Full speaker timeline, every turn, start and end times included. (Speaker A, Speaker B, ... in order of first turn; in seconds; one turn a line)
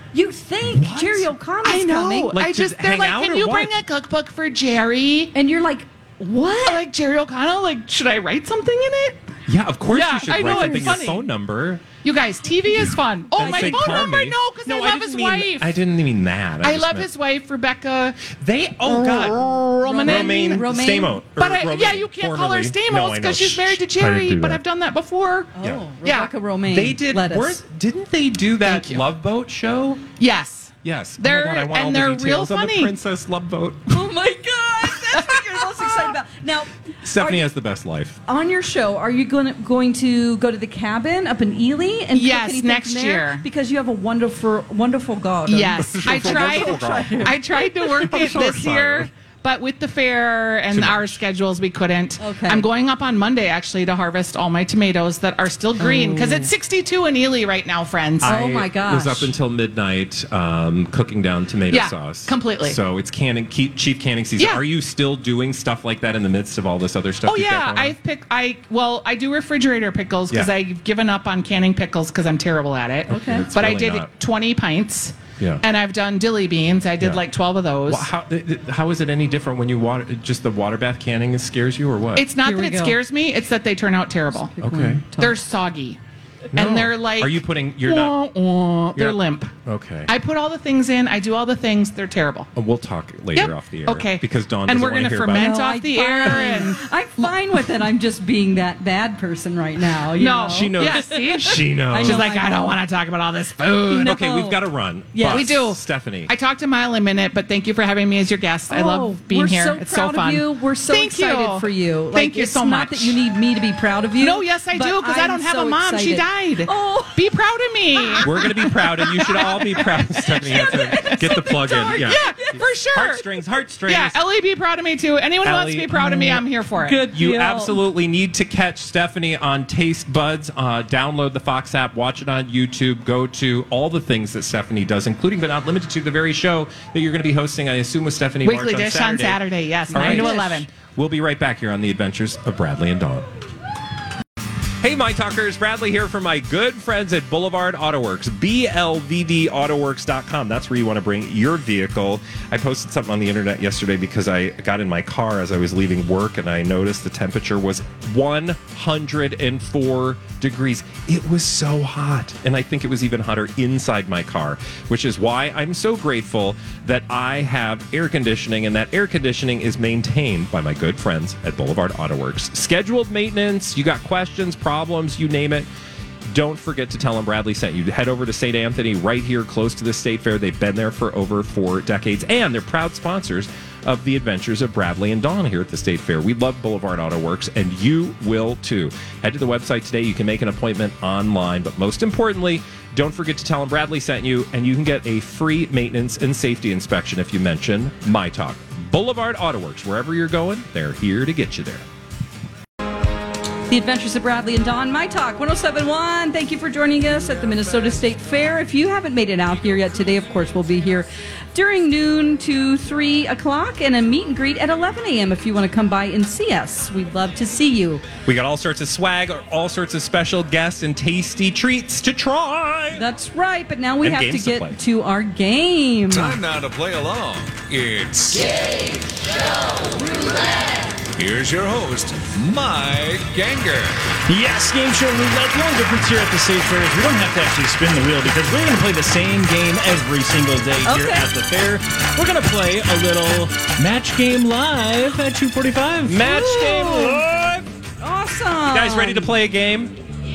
Speaker A: 0.1-2.3
Speaker B: 0.7-1.2
Speaker C: 1.6-5.3
Speaker B: 2.3-3.7
Speaker A: 5.3-6.8
Speaker C: 6.6-9.2
Speaker B: 9.5-11.8
Speaker C: 9.9-11.3
Speaker A: 10.7-10.9
Speaker C: 12.0-15.8
Speaker B: 13.3-17.1
Speaker A: 13.4-14.1
Speaker C: 16.6-20.7
Speaker B: 18.3-24.6
Speaker A: 19.9-21.2
Speaker C: 21.4-25.5
Speaker A: 25.5-27.6
Speaker C: 26.0-26.3
Speaker B: 26.7-30.1
Speaker C: 28.6-29.0
Speaker C: 30.2-32.9
Speaker B: 30.8-34.0
Speaker A: 33.9-37.5
Speaker B: 37.0-38.2
Speaker A: 38.3-47.7
Speaker C: 42.1-43.5
Speaker C: 45.5-58.3
Speaker B: 45.7-49.1
Speaker B: 50.7-51.2
Speaker A: 52.2-52.7
Speaker A: 55.8-56.5
Speaker B: 58.2-68.0
Speaker A: 58.2-59.3
Speaker C: 61.7-62.8
Speaker C: 67.3-78.1
Speaker A: 73.1-73.5
Speaker B: 73.1-74.1
Speaker B: 75.4-75.6
Speaker B: 77.9-82.3
Speaker C: 82.2-84.5
Speaker A: 82.4-83.0
Speaker A: 84.6-85.4
Speaker B: 84.6-85.1
Speaker C: 85.2-86.0
Speaker B: 86.5-88.2
Speaker C: 86.5-89.5
Speaker B: 89.0-90.1
Speaker C: 90.1-92.5
Speaker B: 92.5-95.6
Speaker C: 93.3-96.8
Speaker A: 95.3-102.7
Speaker B: 96.3-96.6
Speaker C: 100.2-104.1
Speaker B: 100.5-102.3
Speaker A: 103.9-104.6
Speaker B: 104.0-106.3
Speaker A: 105.1-105.5
Speaker C: 105.3-113.2
Speaker A: 108.7-117.2
Speaker C: 114.2-118.5
Speaker A: 118.0-122.6
Speaker B: 118.2-124.2
Speaker C: 119.3-123.3
Speaker C: 123.9-127.1
Speaker B: 125.4-126.4
Speaker A: 126.8-127.8
Speaker B: 127.0-143.2
Speaker C: 138.4-140.7
Speaker A: 139.9-140.4
Speaker B: 144.8-175.7
Speaker B: 176.3-201.8
Speaker A: 203.7-218.0
Speaker B: 218.3-223.1
Speaker A: 222.9-226.4
Speaker B: 224.0-224.8
Speaker D: 226.1-228.9
Speaker D: 231.2-234.1
Speaker E: 234.3-246.2
Speaker A: 240.8-241.3
Speaker B: 246.1-247.7
Speaker A: 246.2-247.2
Speaker A: 248.0-249.3
Speaker B: 248.7-249.9